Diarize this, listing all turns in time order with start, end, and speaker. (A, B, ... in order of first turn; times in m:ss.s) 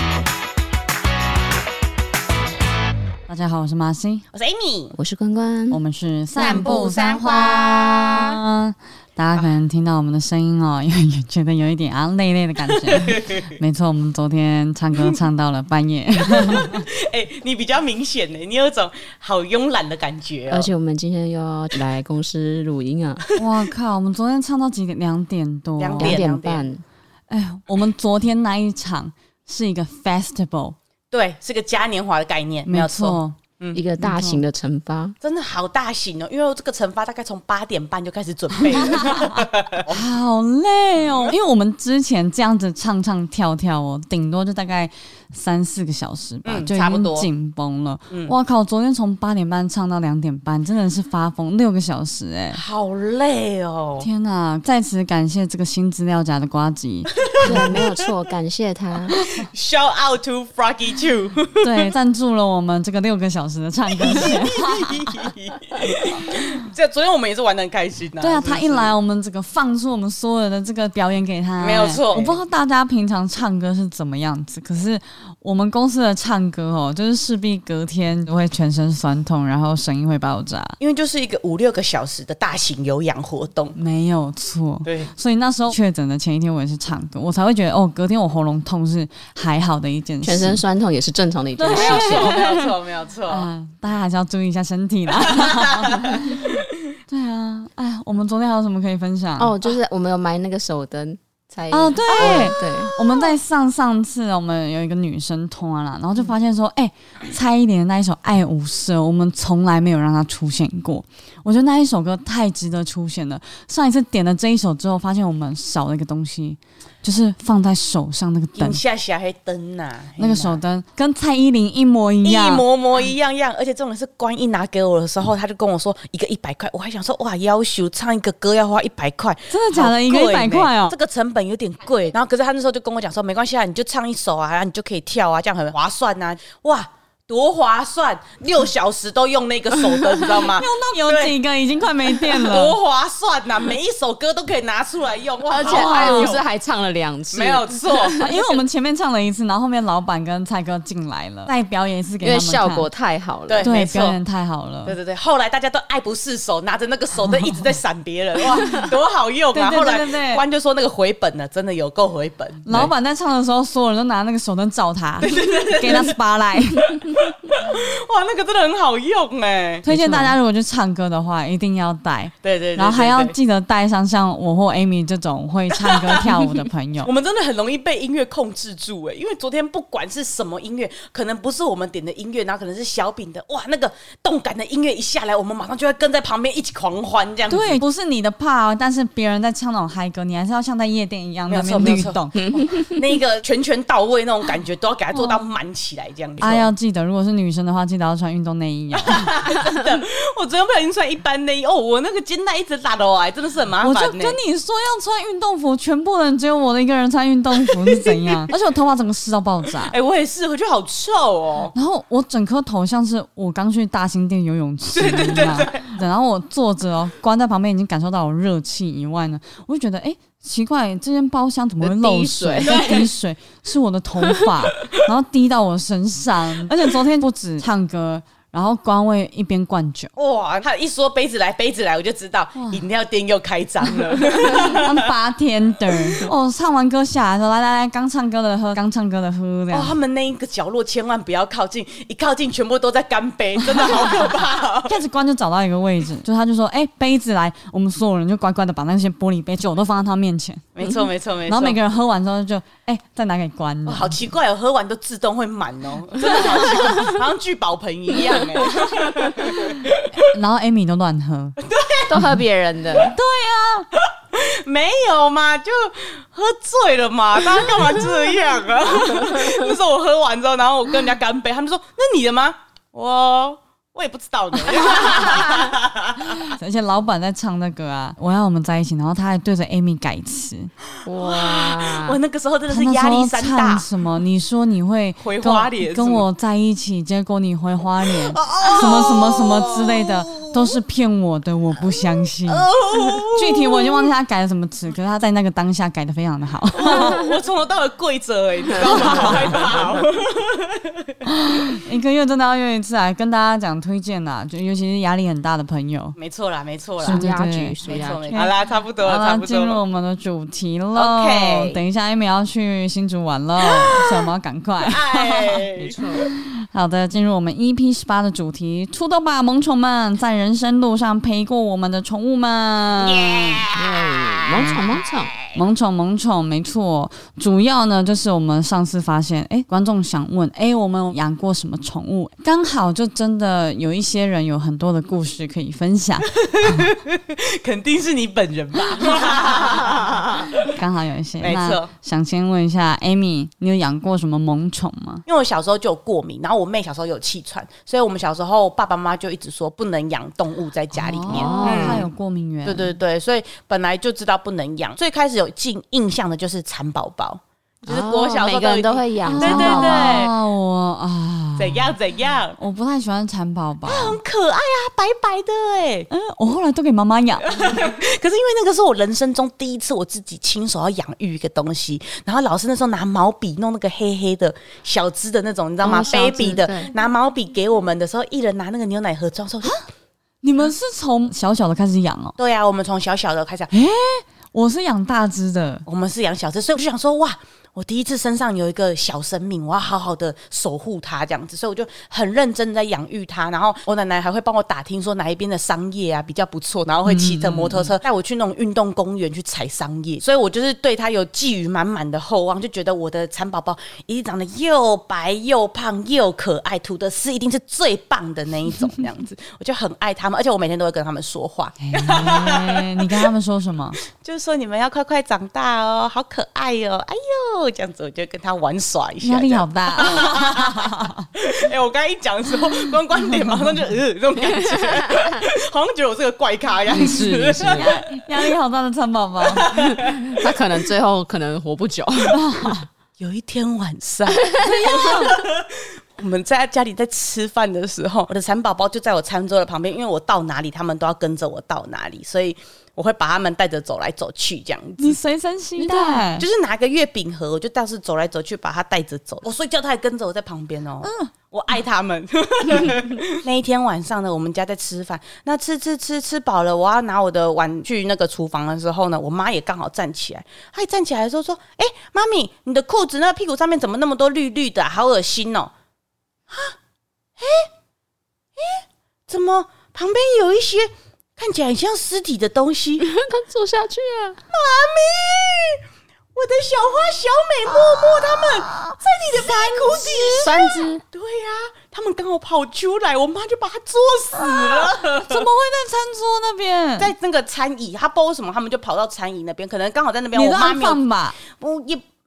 0:03.3-0:04.2 A
0:04.3-0:05.0 B
0:05.0-0:05.8 C
0:05.7-0:16.8 A
0:06.4-0:08.4 B
0:12.9-0:13.6 B
0:16.3-0:20.7 B
0:20.5-0:23.2 C
0:23.4-0:26.2 A
0:25.8-0:26.7 B
0:26.0-0:26.8 C
0:27.3-0:30.8 A
0:31.1-0:33.8 B
0:32.7-0:33.4 A
0:33.8-0:35.2 C
0:34.0-0:34.4 A
0:35.2-0:40.0 B
0:38.6-0:52.6 A
0:41.0-0:41.4 B
0:46.4-0:47.3 B
0:52.5-0:54.1 B
0:54.0-0:57.6 A
0:57.3-0:58.1 B
0:57.4-0:59.2 C
0:59.1-1:01.9 B
1:01.6-1:05.2 A
1:04.0-1:08.9 B
1:08.2-1:20.8 A
1:11.6-1:12.4 B
1:20.8-1:23.8 B
1:23.8-1:30.6 A
1:24.8-1:25.1 B
1:30.2-1:32.4 C
1:31.6-1:32.7 A
1:31.7-1:33.5 B
1:33.3-1:39.6 A
1:35.2-1:36.6 B
1:39.4-1:42.9 C
1:41.7-1:58.8 A
1:42.1-1:42.6 B
1:58.6-2:00.6 B
2:00.2-2:02.6 A
2:02.2-2:21.4 B
2:09.5-2:11.0 A
2:20.5-2:22.8 A
2:22.2-2:26.4 B
2:25.5-2:28.3 C
2:25.6-2:26.3 A
2:27.3-2:28.6 B
2:28.2-2:32.9 A
2:32.2-2:33.7 C
2:33.5-2:34.2 B
2:33.6-2:35.0 A
2:34.9-2:42.9 B
2:39.5-2:40.4 A
2:42.7-2:47.0 A
2:45.2-2:46.2 B
2:46.8-2:49.9 B
2:49.8-2:57.1 A
2:49.9-2:50.4 C
2:52.4-2:53.4 B
2:55.8-2:56.3 B
2:57.0-3:07.8 B
3:07.5-3:12.7 A
3:11.5-3:16.7 B
3:15.1-3:15.4 A
3:16.4-3:19.3 A
3:19.0-3:24.4 B
3:23.8-3:30.0 A
3:27.7-3:28.1 B
3:29.9-3:31.7 B
3:31.8-3:50.1 A
3:35.0-3:36.0 B
3:41.8-3:43.1 C
3:42.7-3:43.1 B
3:50.2-3:55.0 B
3:52.6-3:52.8 A
3:54.2-3:59.9 A
3:59.7-4:05.0 B
4:03.7-4:04.2 A
4:04.9-4:14.2 A
4:10.8-4:11.8 B
4:13.9-4:20.1 B
4:16.3-4:16.7 A
4:18.7-4:21.6 A
4:21.6-4:22.2 B
4:22.1-4:23.2 C
4:23.0-4:23.9 A
4:24.2-4:36.5 B
4:34.8-4:35.5 A
4:36.3-4:40.7 A
4:41.0-4:42.2 C
4:41.2-4:43.9 B
4:42.7-4:57.2 A
4:45.2-4:46.3 B
4:48.3-4:50.8 B
4:51.8-4:54.1 B
4:56.8-5:01.1 B
4:58.8-4:59.2 C
4:58.8-4:59.6 A
5:01.3-5:06.2 A
5:06.2-5:07.3 B
5:07.0-5:08.4 C
5:07.0-5:07.8 A
5:07.8-5:09.8 B
5:08.3-5:15.6 A
5:11.0-5:11.8 B
5:13.8-5:14.3 B
5:14.9-5:16.2 B
5:15.8-5:16.2 C
5:16.7-5:23.6 A
5:23.0-5:25.6 B
5:23.7-5:25.3 C
5:24.5-5:24.8 A
5:25.5-5:36.9 A
5:36.4-5:40.8 B
5:40.7-5:45.2 A
5:41.4-5:41.9 B
5:45.3-5:52.1 B
5:51.0-5:53.0 A
5:51.3-5:52.1 C
5:52.6-6:00.3 B
5:57.9-6:00.3 C
5:59.3-6:01.9 A
6:01.6-6:02.6 B
6:02.6-6:04.2 A
6:03.8-6:06.1 B
6:06.1-6:07.8 A
6:07.5-6:19.8 B
6:15.8-6:16.9 C
6:20.4-6:22.4 A
6:22.4-6:23.7 B
6:23.7-6:25.8 A
6:25.9-6:53.3 B
6:37.1-6:37.9 A
6:51.8-6:54.0 A
6:54.2-7:08.2 B
6:59.2-7:01.3 A
7:04.8-7:05.2 C
7:06.9-7:07.9 C
7:07.7-7:10.2 A
7:09.5-7:10.5 B
7:09.8-7:12.4 C
7:12.3-7:12.9 A
7:13.2-7:25.2 B
7:14.6-7:15.4 A
7:25.0-7:26.5 A
7:25.8-7:26.2 C
7:26.4-7:45.7 B
7:31.0-7:31.3 A
7:46.5-7:46.8 B
7:47.4-7:47.7 B
7:48.6-7:53.1 B
7:53.0-7:54.4 C
7:54.5-7:55.8 B
7:56.4-8:05.4 B
7:59.7-8:01.0 C
8:05.1-8:07.1 A
8:07.0-8:12.0 B
8:10.3-8:11.4 A